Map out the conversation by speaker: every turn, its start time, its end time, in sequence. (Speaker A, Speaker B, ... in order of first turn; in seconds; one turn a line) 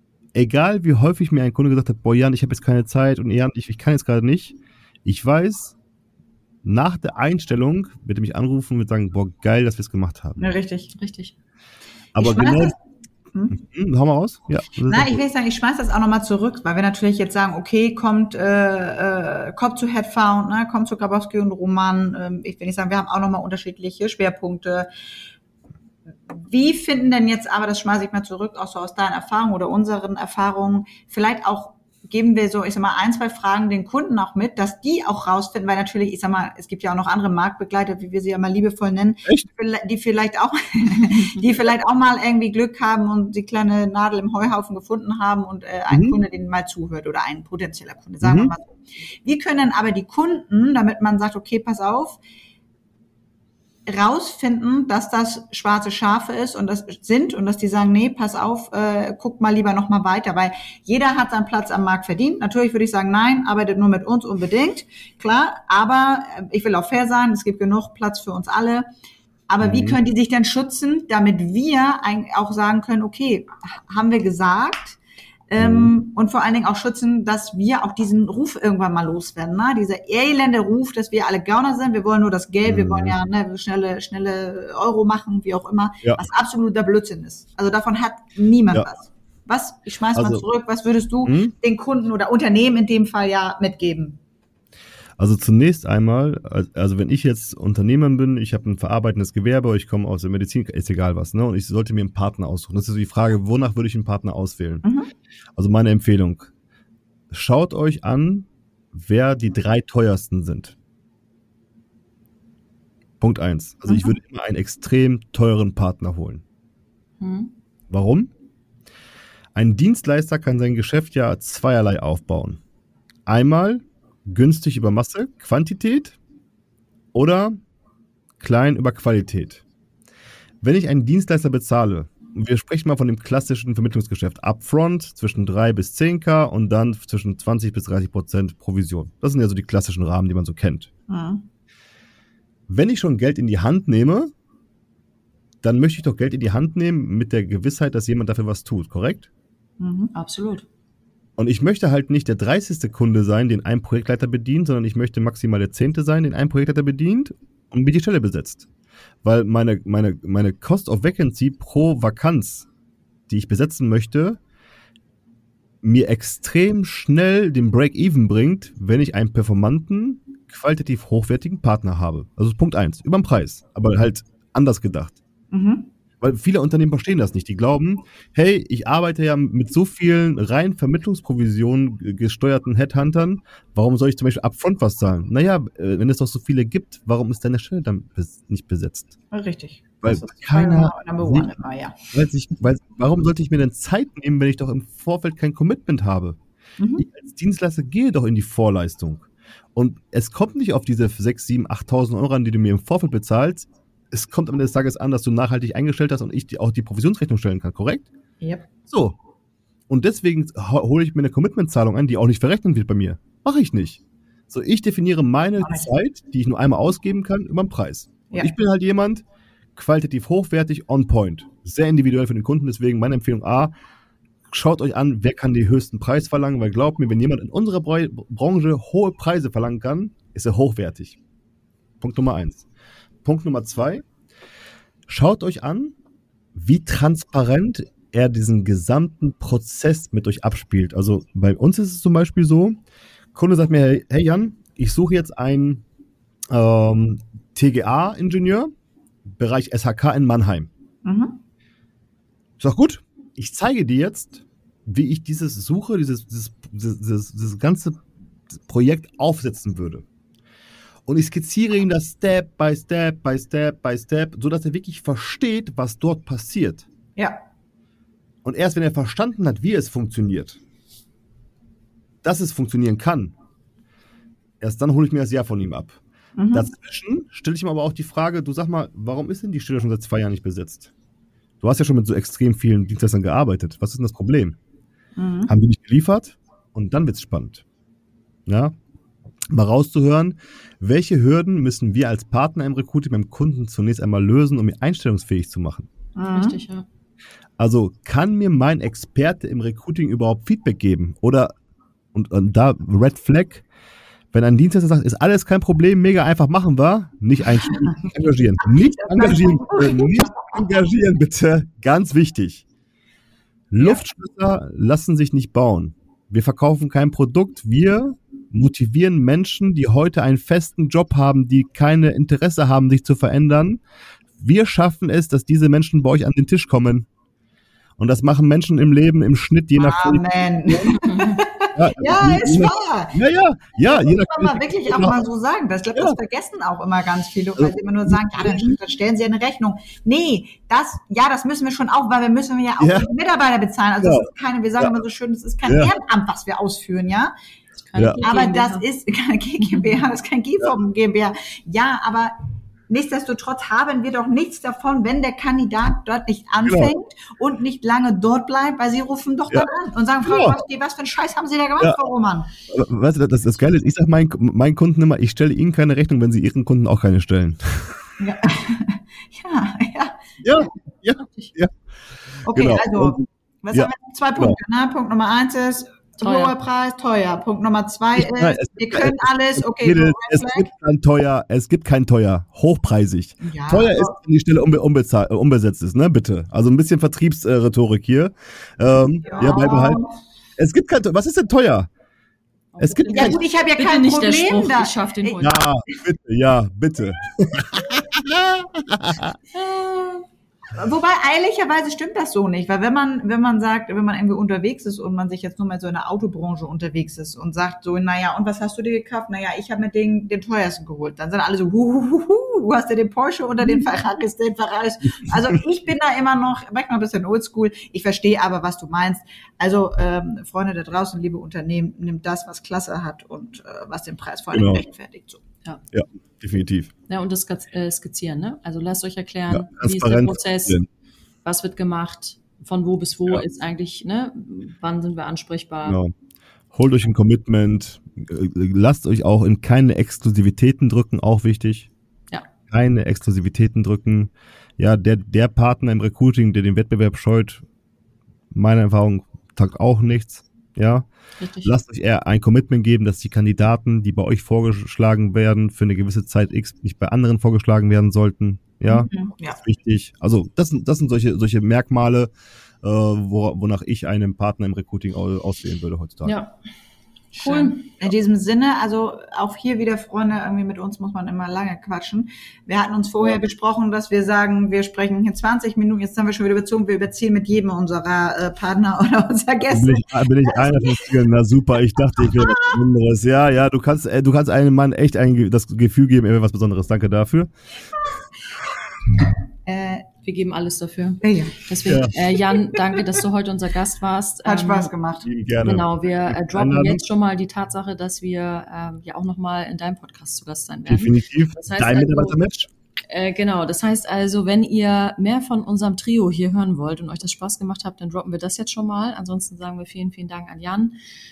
Speaker A: 0.3-5.7
Speaker A: 6.6-10.4
Speaker B: 10.4-10.9
Speaker C: 10.9-11.3
Speaker A: 12.1-12.7
Speaker B: 12.2-12.7
Speaker A: 13.5-15.2
Speaker B: 14.9-24.9
Speaker B: 26.3-48.7
Speaker A: 45.9-46.1
Speaker A: 48.2-48.5
Speaker B: 49.2-52.2
Speaker B: 53.9-68.9
Speaker B: 69.5-94.2
Speaker A: 69.6-70.0
Speaker A: 75.6-75.9
Speaker A: 82.6-83.1
Speaker A: 90.1-90.5
Speaker A: 91.2-91.5
Speaker A: 95.2-104.8
Speaker B: 104.8-105.1
Speaker A: 105.5-106.5
Speaker A: 107.3-110.8
Speaker A: 113.2-116.4
Speaker B: 113.9-114.1
Speaker C: 117.2-117.5
Speaker A: 117.9-118.3
Speaker A: 119.5-122.6
Speaker A: 123.2-126.2
Speaker A: 127.1-127.6
Speaker A: 128.4-129.6
Speaker A: 130.6-140.9
Speaker B: 141.1-141.4
Speaker A: 142.7-144.3
Speaker A: 145.6-149.3
Speaker B: 149.8-150.1
Speaker C: 150.1-150.7
Speaker A: 151.4-158.7
Speaker A: 159.2-162.7
Speaker A: 163.3-164.4
Speaker A: 165.8-175.2
Speaker B: 175.5-175.9
Speaker A: 176.2-189.2
Speaker B: 189.3-192.0
Speaker A: 190.0-191.5
Speaker A: 192.1-196.4
Speaker B: 196.8-197.0
Speaker A: 197.0-208.1
Speaker B: 208.4-208.7
Speaker A: 208.9-209.2
Speaker A: 209.9-219.2
Speaker B: 215.6-215.9
Speaker A: 219.8-223.7
Speaker A: 224.5-231.2
Speaker A: 232.0-232.7
Speaker A: 233.2-234.0
Speaker A: 235.1-235.9
Speaker A: 236.5-242.8
Speaker A: 243.3-245.8
Speaker A: 246.5-248.7
Speaker A: 249.2-250.7
Speaker B: 251.0-251.4
Speaker A: 252.6-260.0
Speaker A: 261.1-266.8
Speaker B: 267.1-267.4
Speaker A: 268.4-270.6
Speaker A: 272.2-273.3
Speaker A: 274.6-276.0
Speaker B: 276.4-276.7
Speaker A: 276.5-280.9
Speaker A: 281.6-284.6
Speaker B: 285.1-285.5
Speaker A: 285.5-287.6
Speaker A: 288.4-288.7
Speaker A: 289.5-295.9
Speaker B: 296.1-296.6
Speaker C: 296.3-296.9
Speaker A: 297.6-301.5
Speaker A: 302.1-303.6
Speaker A: 304.3-312.6
Speaker B: 309.0-310.5
Speaker A: 313.7-323.8
Speaker A: 324.4-327.1
Speaker A: 328.0-331.1
Speaker B: 329.8-333.2
Speaker C: 331.0-331.4
Speaker A: 331.7-335.2
Speaker B: 333.9-347.3
Speaker A: 337.6-338.8
Speaker A: 342.8-343.1
Speaker A: 344.0-345.0
Speaker A: 345.6-345.9
Speaker C: 347.8-348.8
Speaker B: 348.2-352.3
Speaker C: 349.7-350.0
Speaker B: 352.9-362.5
Speaker A: 356.6-356.9
Speaker A: 360.2-360.6
Speaker A: 362.7-368.1
Speaker B: 368.2-370.2
Speaker A: 370.4-371.7
Speaker C: 371.2-371.5
Speaker B: 372.4-380.7
Speaker A: 372.5-373.2
Speaker A: 373.7-374.6
Speaker C: 376.2-376.5
Speaker A: 378.1-390.0
Speaker B: 383.4-384.1
Speaker B: 389.2-390.1
Speaker A: 390.6-391.9
Speaker C: 392.7-395.6
Speaker A: 392.8-393.4
Speaker B: 393.1-396.0
Speaker A: 395.4-399.4
Speaker B: 399.5-425.4
Speaker A: 424.5-424.8
Speaker A: 425.9-426.9
Speaker C: 427.1-430.8
Speaker A: 429.5-430.9
Speaker C: 431.4-436.0
Speaker A: 435.8-436.1
Speaker A: 436.7-441.9
Speaker A: 442.7-447.6
Speaker A: 448.5-451.1
Speaker C: 451.4-451.7
Speaker A: 451.6-466.4
Speaker B: 459.0-459.6
Speaker C: 466.2-466.5
Speaker C: 467.3-468.0
Speaker B: 467.4-481.1
Speaker A: 479.7-487.5
Speaker B: 482.2-482.8
Speaker B: 489.6-490.1
Speaker C: 490.2-494.9
Speaker B: 491.2-491.6
Speaker A: 491.9-492.1
Speaker B: 494.4-495.3
Speaker A: 495.2-497.0
Speaker C: 495.6-502.4
Speaker A: 500.9-502.7
Speaker C: 503.1-510.9